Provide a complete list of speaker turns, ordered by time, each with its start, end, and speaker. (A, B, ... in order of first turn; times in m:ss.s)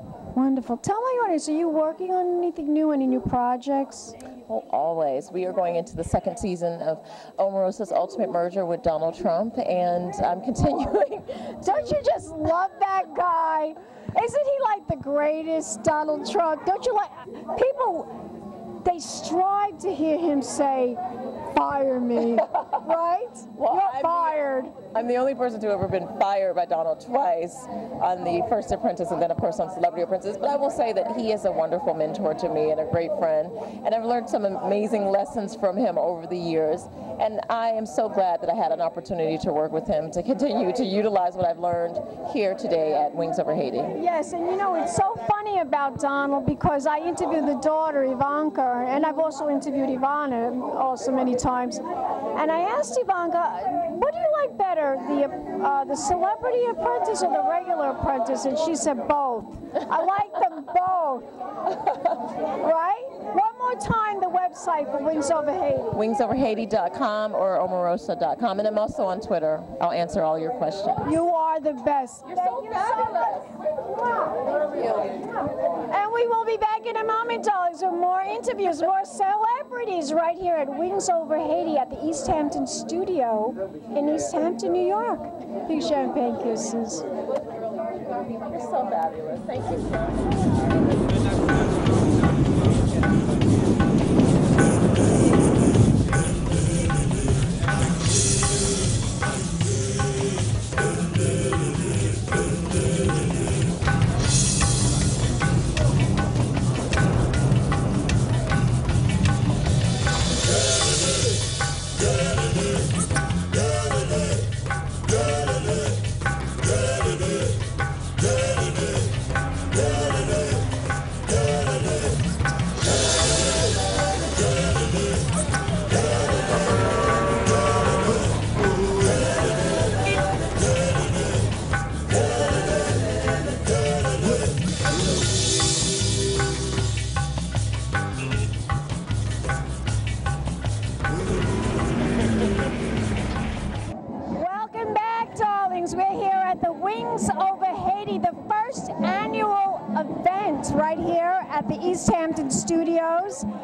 0:00.3-0:04.2 A
0:04.5-0:11.9 B
0:11.6-0:18.1 A
0:18.8-0:24.8 A
0:23.6-0:44.0 B
0:44.0-1:01.3 A
1:02.6-1:06.0 A
1:05.9-1:11.2 B
1:11.0-1:13.3 A
1:12.3-1:13.4 B
1:14.1-1:14.6 A
1:15.2-1:27.1 A
1:28.3-1:30.6 B
2:24.3-2:33.5 A